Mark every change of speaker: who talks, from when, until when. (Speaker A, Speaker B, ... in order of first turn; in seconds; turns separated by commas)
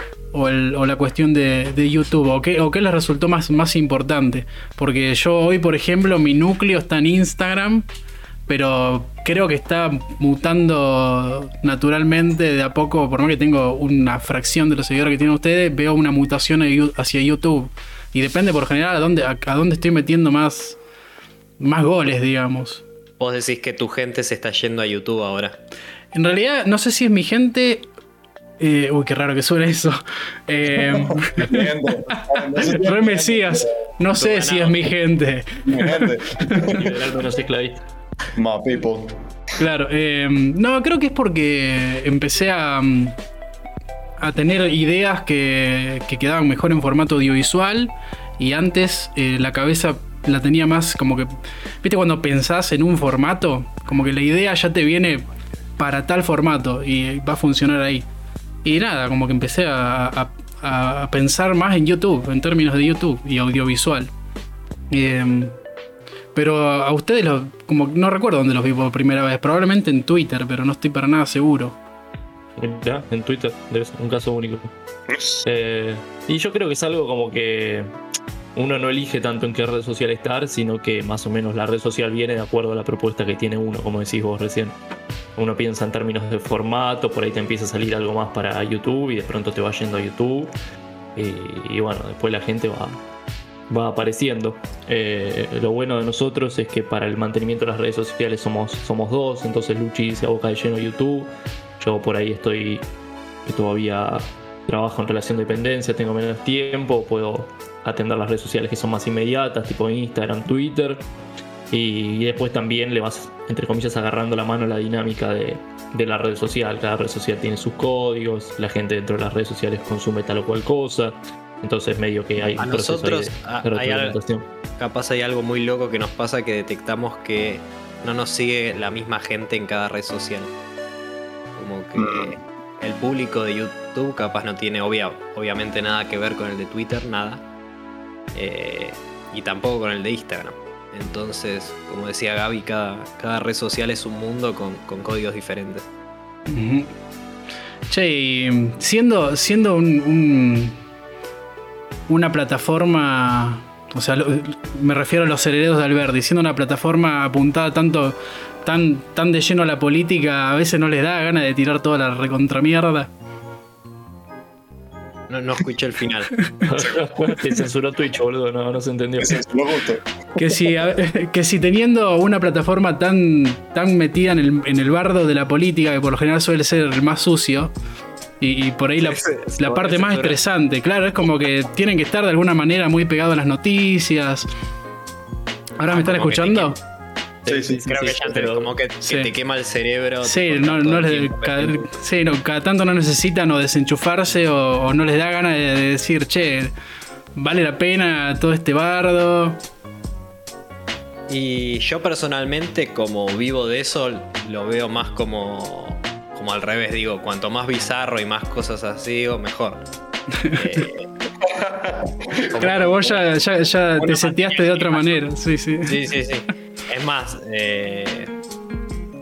Speaker A: 0.3-7.8, Speaker A: 8.5-20.8, Speaker A: 21.6-22.8, Speaker B: 23.2-25.6, Speaker A: 26.1-27.9, Speaker A: 28.6-36.7, Speaker C: 30.8-33.8, Speaker B: 34.2-34.9, Speaker C: 35.6-36.9, Speaker D: 36.7-37.8, Speaker C: 38.3-39.2, Speaker A: 39.6-43.1, Speaker A: 44.2-51.3, Speaker A: 51.8-55.2, Speaker A: 55.8-58.0, Speaker A: 58.6-64.1, Speaker A: 64.9-65.5, Speaker A: 66.3-71.8, Speaker D: 72.6-74.7, Speaker C: 75.1-75.4, Speaker D: 75.4-77.9, Speaker D: 78.5-84.8, Speaker D: 85.3-90.5, Speaker D: 91.2-93.0, Speaker D: 93.7-102.8, Speaker D: 103.4-111.0, Speaker D: 111.7-124.5, Speaker B: 122.6-124.1, Speaker B: 124.8-130.5, Speaker B: 131.6-137.4, Speaker C: 131.9-132.3, Speaker B: 138.3-145.9, Speaker A: 146.5-146.9, Speaker A: 147.9-150.8, Speaker A: 152.1-163.1, Speaker B: 165.3-166.4, Speaker D: 166.6-169.4, Speaker C: 169.2-170.1, Speaker A: 170.4-177.7, Speaker A: 178.4-184.5, Speaker B: 179.0-180.4, Speaker A: 185.8-186.8, Speaker B: 185.9-186.8, Speaker D: 187.4-188.7, Speaker C: 187.5-187.8, Speaker B: 187.9-191.9, Speaker A: 189.0-189.3, Speaker A: 190.2-196.7, Speaker A: 197.3-199.6, Speaker B: 201.3-209.8, Speaker A: 210.4-210.8, Speaker B: 210.5-211.1, Speaker C: 211.4-212.4, Speaker B: 212.4-213.2, Speaker A: 212.6-216.0, Speaker B: 214.0-215.3, Speaker B: 215.8-218.3